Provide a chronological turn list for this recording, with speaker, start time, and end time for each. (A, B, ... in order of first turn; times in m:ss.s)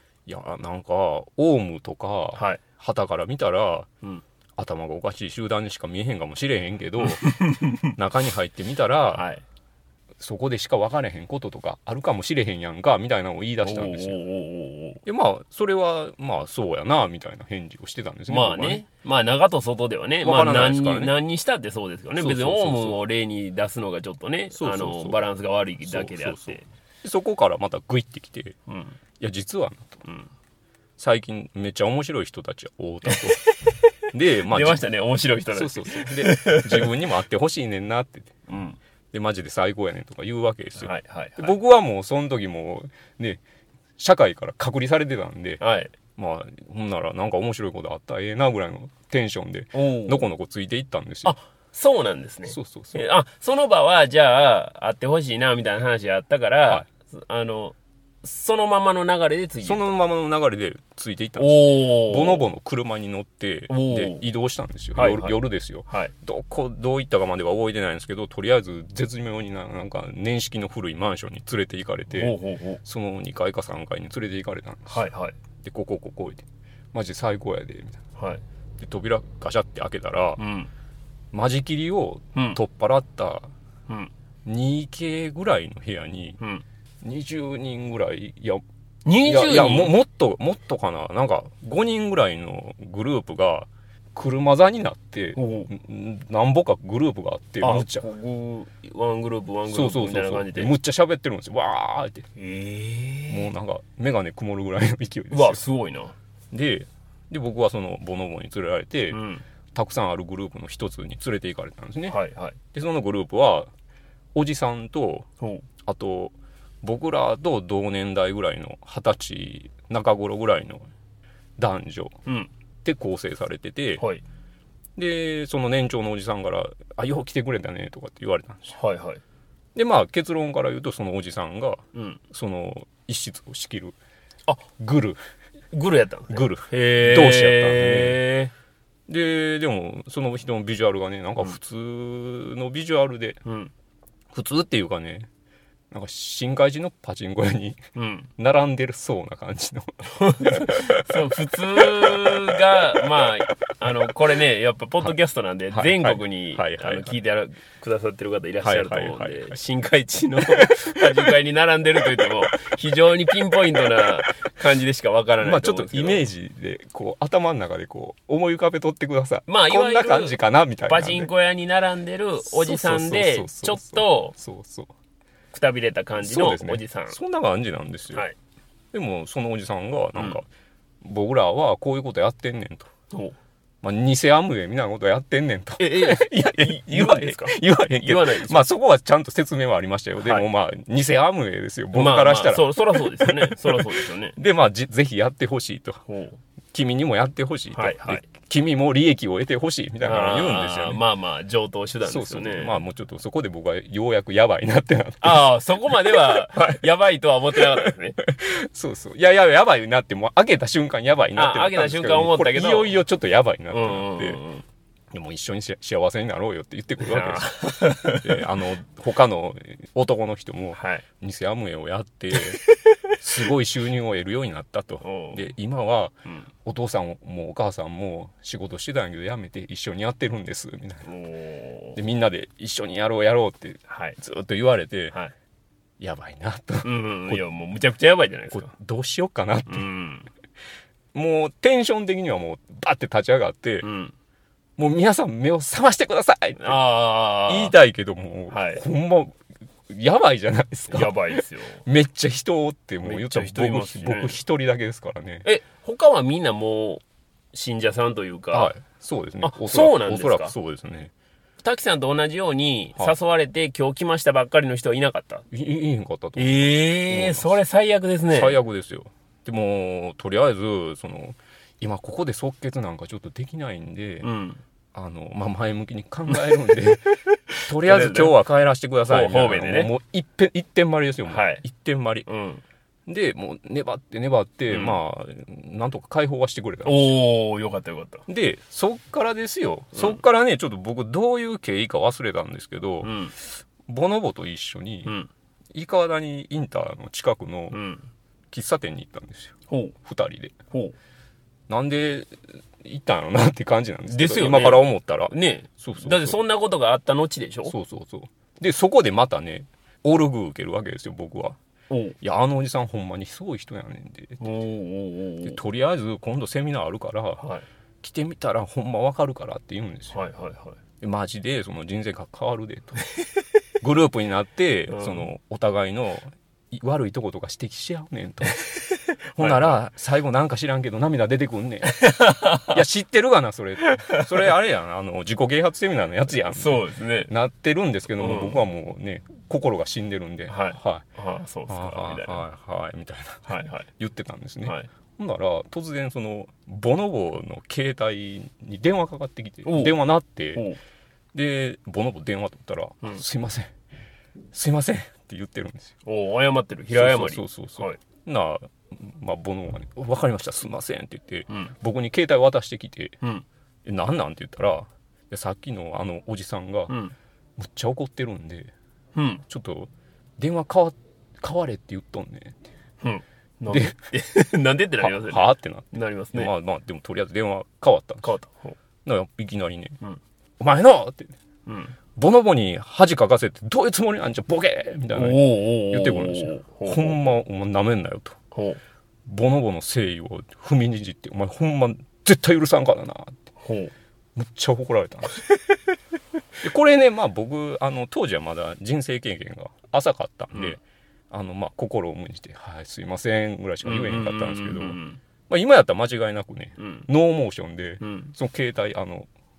0:00.2-0:03.9 A
0:02.4-0:02.6 B
0:04.6-0:09.2 A
0:07.0-0:07.9 B
0:09.1-0:09.4 B
0:10.2-0:14.2 A
0:13.6-0:15.0 B
0:15.0-0:18.8 A
0:18.3-0:26.6 B
0:20.2-0:21.1 A
0:22.2-0:23.0 A
0:24.5-0:25.2 A
0:25.8-0:28.6 A
0:28.7-0:29.0 B
0:29.2-0:30.0 A
0:30.0-0:30.3 B
0:31.0-0:33.4 A
0:33.1-0:33.9 B
0:34.1-0:34.8 A
0:34.4-0:36.9 B
0:35.5-0:38.4 A
0:38.5-0:38.8 B
0:39.1-0:43.4 A
0:40.8-0:41.5 B
0:44.0-0:45.6 A
0:45.6-0:45.9 B
0:46.2-0:51.4 A
0:49.7-0:50.2 B
0:51.2-0:59.9 B
0:52.5-0:53.0 A
0:59.6-1:15.1 A
1:01.4-1:02.5 B
1:03.7-1:04.2 B
1:04.9-1:06.1 B
1:12.1-1:12.8 B
1:14.9-1:15.3 B
1:15.6-1:18.0 A
1:18.2-1:18.4 B
1:18.8-1:20.4 A
1:20.4-1:20.7 B
1:21.3-1:23.5 A
1:24.4-1:26.4 A
1:27.0-1:28.6 A
1:29.0-1:29.9 B
1:29.2-1:38.0 A
1:35.3-1:35.7 B
1:37.6-1:40.7 B
1:39.7-1:42.3 A
1:42.4-1:43.5 B
1:43.3-1:45.6 A
1:45.3-1:46.1 B
1:46.5-1:49.2 A
1:49.1-1:49.4 B
1:49.7-1:52.2 A
1:52.1-1:52.6 B
1:52.7-1:53.7 A
1:54.3-1:55.3 A
1:55.4-1:55.6 B
1:55.8-2:00.8 A
2:01.6-2:02.2 A
2:02.2-2:02.5 B
2:02.8-2:04.0 A
2:04.0-2:04.2 B
2:05.0-2:08.8 A
2:08.7-2:09.2 B
2:09.7-2:14.0 A
2:11.9-2:12.2 B
2:14.8-2:15.2 A
2:15.7-2:18.5 B
2:16.3-2:18.2 A
2:19.1-2:23.4 A
2:23.4-2:23.7 B
2:24.3-2:25.3 A
2:25.9-2:27.8 A
2:27.9-2:28.3 B
2:28.4-2:31.2 A
2:30.1-2:46.2 B
2:31.7-2:33.2 A
2:35.7-2:37.2 A
2:38.6-2:39.6 A
2:40.5-2:41.3 A
2:45.4-2:51.3 A
2:49.5-2:54.3 B
2:52.4-2:54.9 A
2:55.5-2:57.2 B
2:56.2-2:58.2 A
2:58.9-3:00.4 A
3:00.2-3:00.4 B
3:01.0-3:02.9 A
3:03.8-3:16.0 A
3:05.8-3:08.7 B
3:10.2-3:10.4 B
3:11.9-3:14.4 B
3:16.1-3:16.4 B
3:16.7-3:21.0 A
3:17.7-3:18.2 B
3:20.0-3:22.8 B
3:22.0-3:26.8 A
3:25.2-3:28.2 B
3:27.5-3:34.4 A
3:31.3-3:33.0 B
3:33.7-3:34.6 B
3:35.1-3:42.6 A
3:37.0-3:38.4 B
3:40.7-3:41.0 B
3:42.3-3:43.4 B
3:43.2-3:51.1 A
3:45.0-3:45.5 B
3:51.0-3:52.0 B
3:51.9-3:55.2 A
3:53.9-3:54.2 B
3:56.0-3:57.4 A
3:56.8-3:58.7 B
3:58.5-3:59.9 A
3:59.7-4:00.3 B
4:01.1-4:03.9 A
4:03.8-4:04.1 B
4:04.8-4:15.5 A
4:06.6-4:07.7 B
4:08.5-4:08.8 B
4:10.9-4:11.8 B
4:13.0-4:14.4 B
4:15.4-4:18.7 B
4:18.5-4:21.1 A
4:19.4-4:20.5 B
4:21.6-4:25.4 B
4:25.5-4:27.6 A
4:26.4-4:28.6 B
4:28.3-4:34.3 A
4:34.2-4:34.6 B
4:34.9-4:42.3 A
4:36.3-4:36.6 B
4:37.5-4:38.4 B
4:39.0-4:39.9 B
4:41.3-4:41.6 B
4:42.3-4:42.6 B
4:43.1-4:47.2 A
4:44.7-4:45.0 B
4:46.8-4:48.2 B
4:48.3-4:55.1 A
4:49.9-4:50.2 B
4:53.0-4:53.3 B
4:55.7-4:57.8 A
4:57.7-4:58.1 B
4:58.5-5:00.5 A
4:59.7-4:59.9 B
5:01.7-5:06.4 A
5:04.1-5:07.7 B
5:07.6-5:11.6 A
5:11.9-5:12.2 B
5:12.2-5:14.4 A
5:14.4-5:15.6 B
5:15.4-5:17.4 A
5:17.4-5:17.6 B
5:18.0-5:20.2 A
5:20.1-5:20.8 B
5:21.0-5:23.0 A
5:23.8-5:28.7 A
5:24.9-5:25.3 B
5:29.3-5:41.0 A
5:29.4-5:29.8 B
5:31.9-5:32.8 B
5:33.8-5:34.4 B
5:36.3-5:37.3 B
5:38.2-5:38.6 B
5:40.5-5:42.4 B
5:41.7-5:50.7 A
5:43.5-5:43.9 B
5:44.6-5:44.9 B
5:49.6-5:50.0 B
5:50.5-5:50.8 B
5:51.3-5:53.7 A
5:54.5-5:55.9 A
5:56.0-5:58.0 B
5:56.9-6:03.2 A
6:03.8-6:07.0 A
6:06.9-6:07.1 B
6:07.6-6:08.7 A
6:09.1-6:09.4 B
6:09.5-6:12.6 A
6:13.0-6:16.5 B
6:13.7-6:13.9 A
6:15.0-6:18.3 A
6:18.2-6:18.8 B
6:19.0-6:20.0 A
6:20.6-6:21.4 A
6:21.6-6:21.9 B
6:22.2-6:28.4 A
6:25.1-6:27.2 B
6:28.5-6:28.8 B
6:29.2-6:33.4 A
6:33.6-6:33.9 B
6:34.4-6:35.4 A
6:36.6-6:40.8 A
6:41.3-6:49.3 A
6:43.8-6:45.2 B
6:46.8-6:47.1 B
6:48.0-6:48.3 B